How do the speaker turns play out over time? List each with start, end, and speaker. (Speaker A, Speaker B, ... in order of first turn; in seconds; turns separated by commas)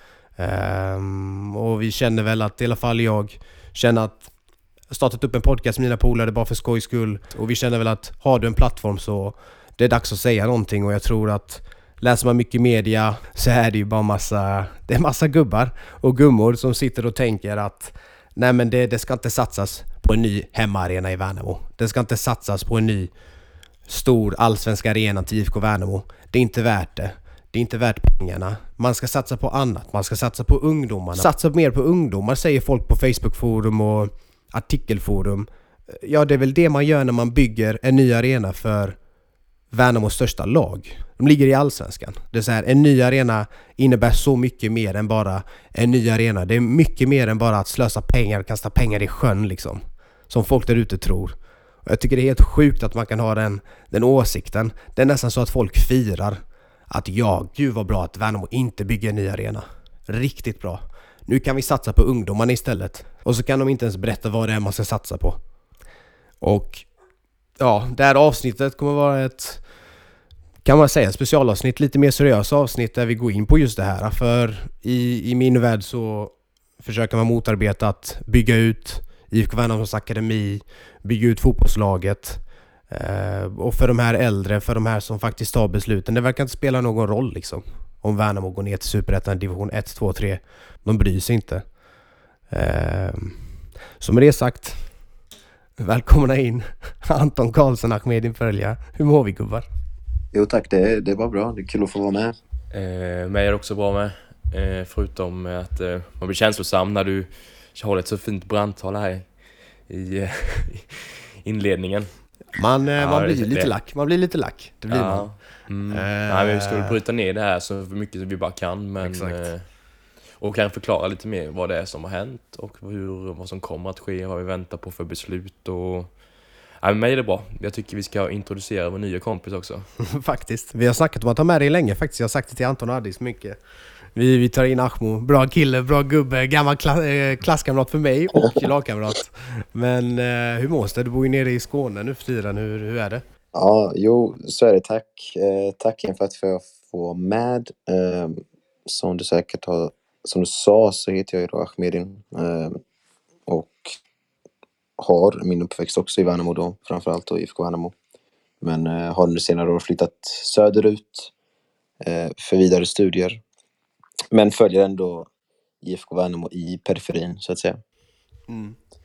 Speaker A: 0.4-4.3, Speaker A: 4.9-23.1, Speaker A: 23.9-39.0, Speaker A: 39.7-65.4, Speaker A: 66.4-66.8, Speaker A: 67.6-69.6, Speaker A: 70.6-91.6, Speaker A: 92.5-94.9, Speaker A: 95.8-99.7, Speaker B: 100.3-102.4, Speaker C: 102.7-112.2, Speaker A: 112.5-116.9, Speaker C: 113.0-113.7, Speaker C: 114.9-119.7, Speaker A: 119.0-119.5, Speaker C: 120.4-126.1, Speaker C: 126.8-129.9, Speaker A: 130.0-133.6, Speaker A: 134.1-143.2, Speaker B: 143.5-152.8, Speaker B: 153.5-153.9, Speaker B: 155.0-157.9, Speaker B: 158.6-161.3, Speaker B: 162.0-163.4, Speaker B: 164.3-165.3, Speaker B: 165.8-167.8, Speaker A: 168.5-168.8